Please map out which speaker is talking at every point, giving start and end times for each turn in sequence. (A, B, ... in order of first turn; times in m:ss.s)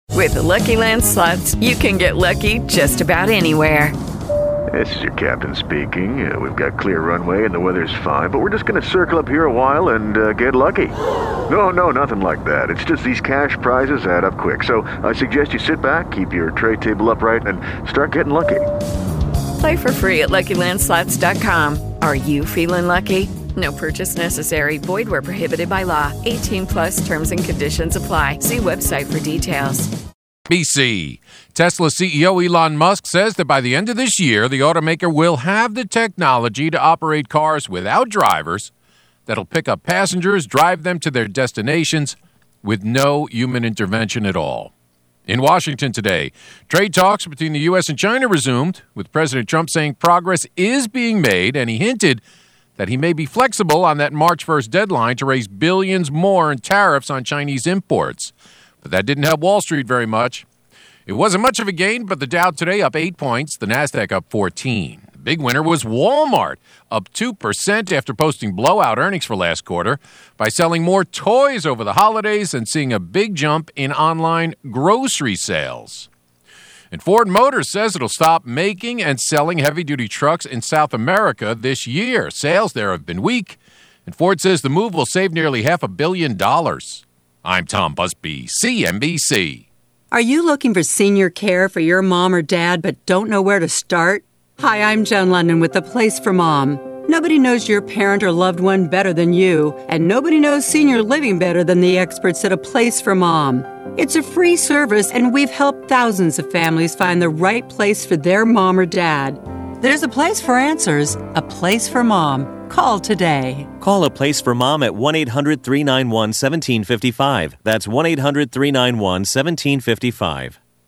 0:00.1-0:03.9 A
0:04.7-0:11.0 B
0:11.5-0:18.7 B
0:19.6-0:29.9 A
0:30.5-0:38.7 C
0:39.3-0:44.7 C
0:45.3-0:52.2 C
0:52.8-1:00.4 C
1:01.1-1:16.1 C
1:16.9-1:29.6 C
1:30.1-1:53.7 D
1:53.8-2:00.6 E